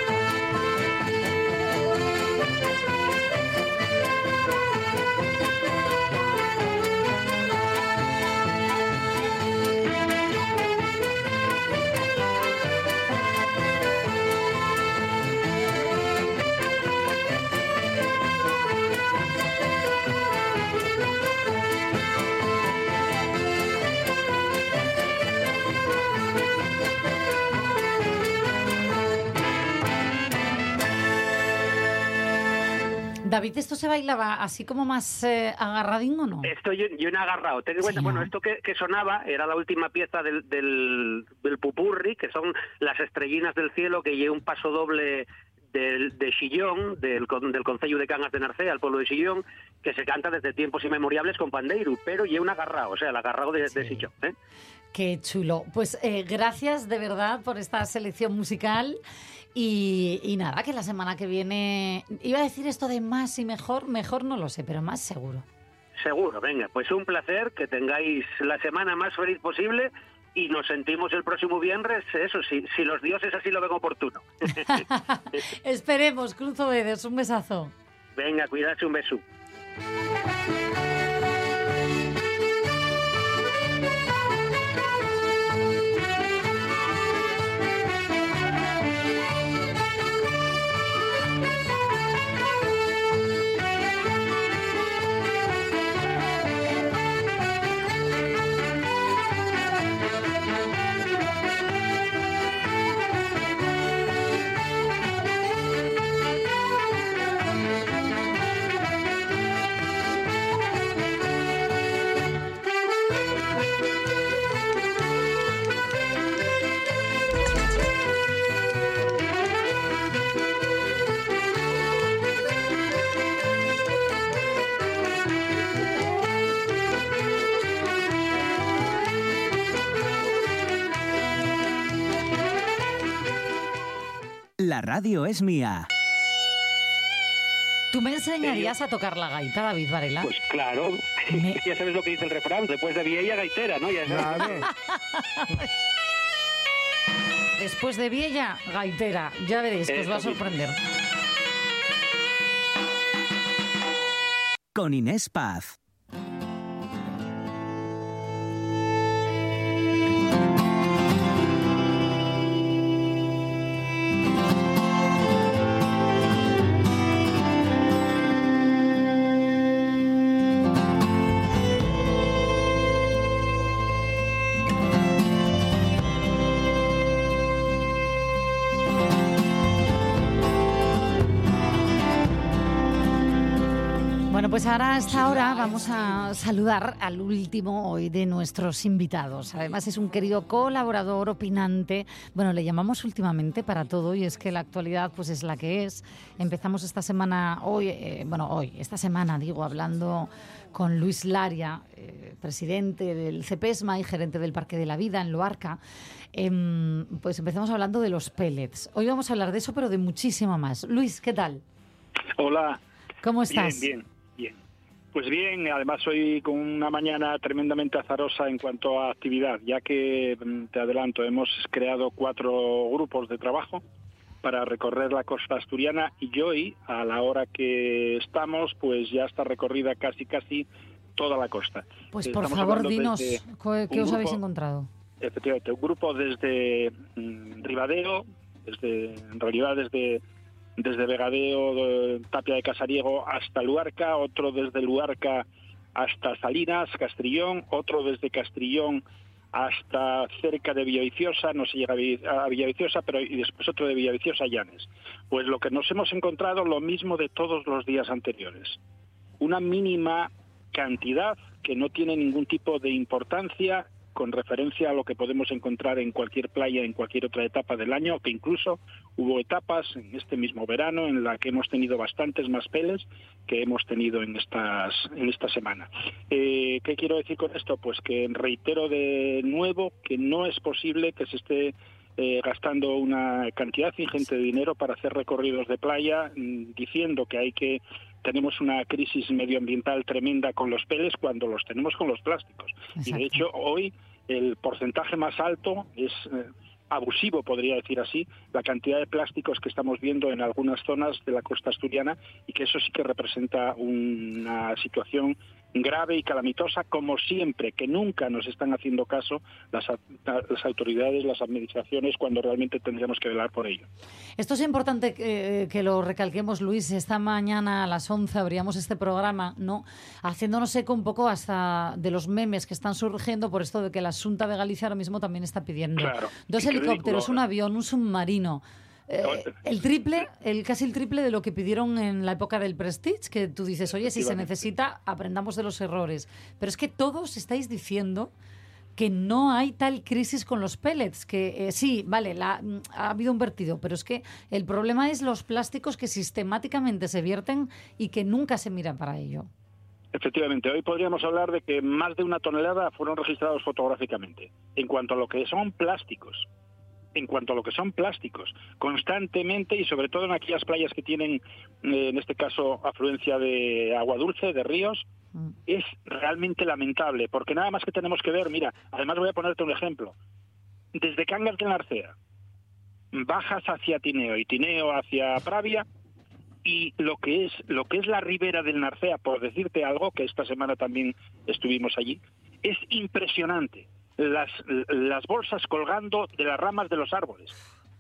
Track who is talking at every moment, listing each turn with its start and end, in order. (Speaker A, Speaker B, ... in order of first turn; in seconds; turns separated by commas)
Speaker A: 33.2-36.5, Speaker B: 36.4-54.4, Speaker A: 37.8-38.3, Speaker A: 53.7-54.1, Speaker A: 54.9-59.0, Speaker A: 59.5-65.5, Speaker B: 66.0-74.8, Speaker A: 74.5-77.7, Speaker B: 78.2-79.2, Speaker C: 134.6-135.9, Speaker A: 137.9-140.3, Speaker B: 138.4-138.7, Speaker B: 140.2-144.7, Speaker A: 141.3-141.6, Speaker A: 144.4-145.7, Speaker A: 147.6-150.8, Speaker B: 149.9-150.4, Speaker C: 154.7-155.8, Speaker A: 184.3-205.8, Speaker A: 206.3-211.6, Speaker D: 212.4-212.8, Speaker A: 213.2-213.9, Speaker D: 213.5-214.6, Speaker D: 215.1-223.8, Speaker D: 224.4-230.7, Speaker D: 231.2-234.4, Speaker A: 232.1-234.9, Speaker D: 235.2-240.2, Speaker D: 240.8-258.8, Speaker D: 259.4-313.9, Speaker A: 293.0-293.4, Speaker A: 314.4-338.3, Speaker D: 326.0-327.4, Speaker D: 329.2-329.5, Speaker D: 333.9-334.6, Speaker A: 339.0-349.5, Speaker D: 350.1-356.5, Speaker D: 357.1-365.0, Speaker D: 365.7-370.1, Speaker D: 370.9-372.2, Speaker D: 373.1-375.9, Speaker D: 376.6-387.6